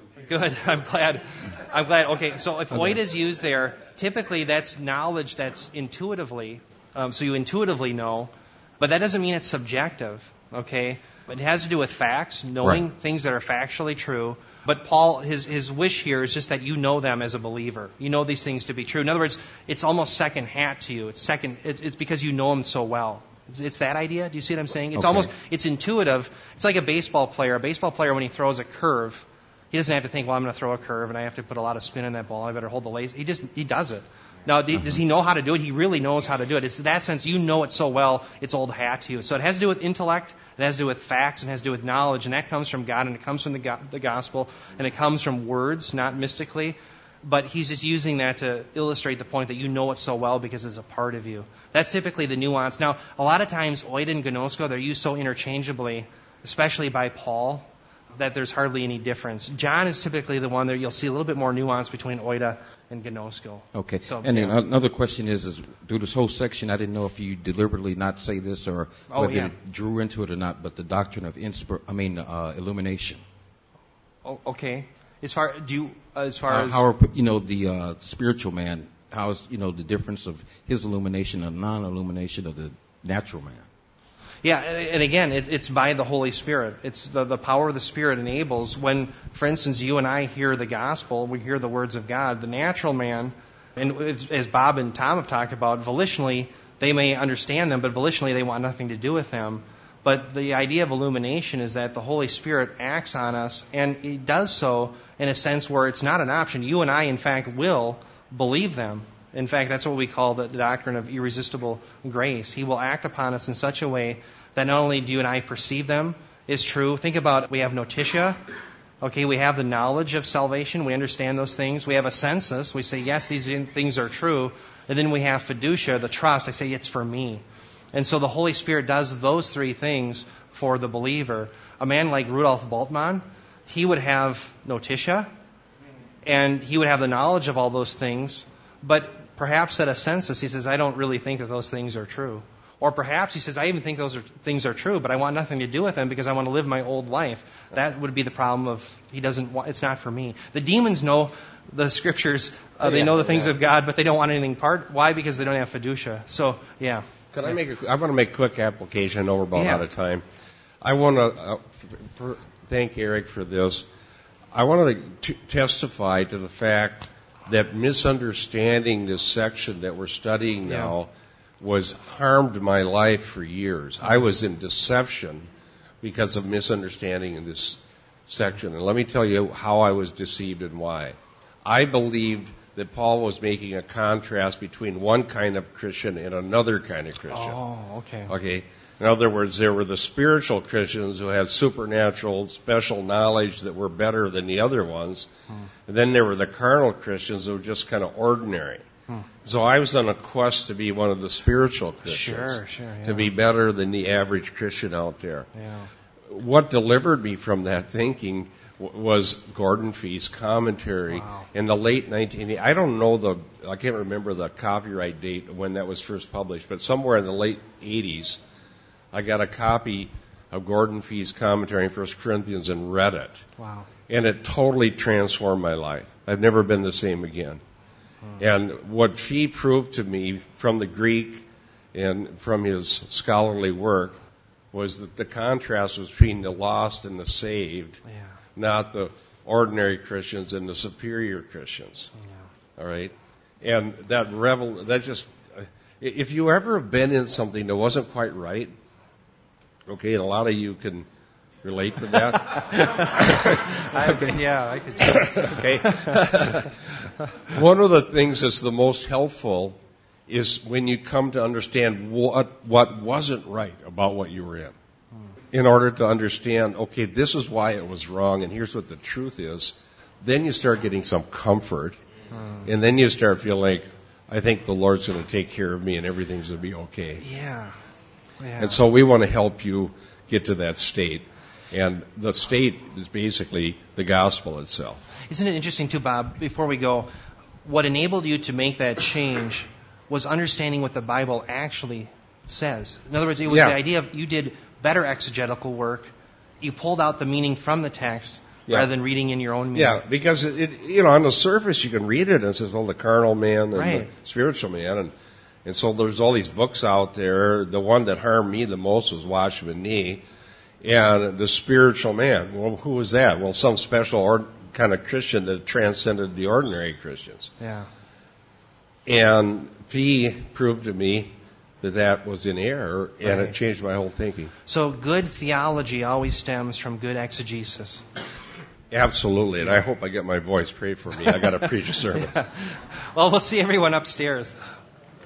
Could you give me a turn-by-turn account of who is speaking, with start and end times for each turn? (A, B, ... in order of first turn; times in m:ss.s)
0:00.2-1:04.6 A
0:25.0-0:25.3 B
1:03.7-1:13.2 B
1:09.1-1:09.5 A
1:14.2-1:16.8 A
1:16.5-1:23.7 B
1:24.4-1:58.4 A
1:59.0-2:15.3 A
2:16.2-2:37.0 A
2:32.9-2:33.3 C
2:37.3-2:40.2 C
2:39.6-2:39.8 A
2:40.8-2:43.8 C
2:44.5-2:51.1 C
2:50.6-2:50.9 A
2:51.6-2:55.5 C
2:56.0-3:07.6 C
3:07.3-3:08.3 A
3:08.3-3:15.3 C
3:15.9-3:18.8 C
3:19.4-3:25.5 C
3:22.0-3:23.3 A
3:25.6-3:25.9 A
3:26.3-3:38.4 C
3:31.1-3:31.5 A
3:39.1-3:43.4 C
3:43.6-3:43.9 A
3:44.1-3:47.6 C
3:48.4-3:54.2 C
3:54.7-3:58.0 C
3:58.6-4:02.1 C
4:02.8-4:08.7 C
4:09.9-4:11.1 C
4:11.6-4:14.4 C
4:12.5-4:16.2 A
4:15.0-4:16.7 C
4:17.5-4:24.7 C
4:25.5-4:32.0 C
4:32.4-4:32.6 A
4:32.6-4:37.2 C
4:37.2-4:37.8 A
4:38.4-4:38.8 A
4:38.6-4:45.1 C
4:45.2-4:47.1 A
4:47.6-5:00.0 A
4:53.5-4:53.8 C
4:59.7-5:05.1 C
5:03.7-5:04.1 A
5:05.6-5:10.2 C
5:10.8-5:17.5 C
5:17.6-5:17.9 A
5:19.0-5:24.5 C
5:23.2-5:23.5 A
5:24.7-5:28.0 A
5:28.9-5:32.4 C
5:32.2-5:34.6 A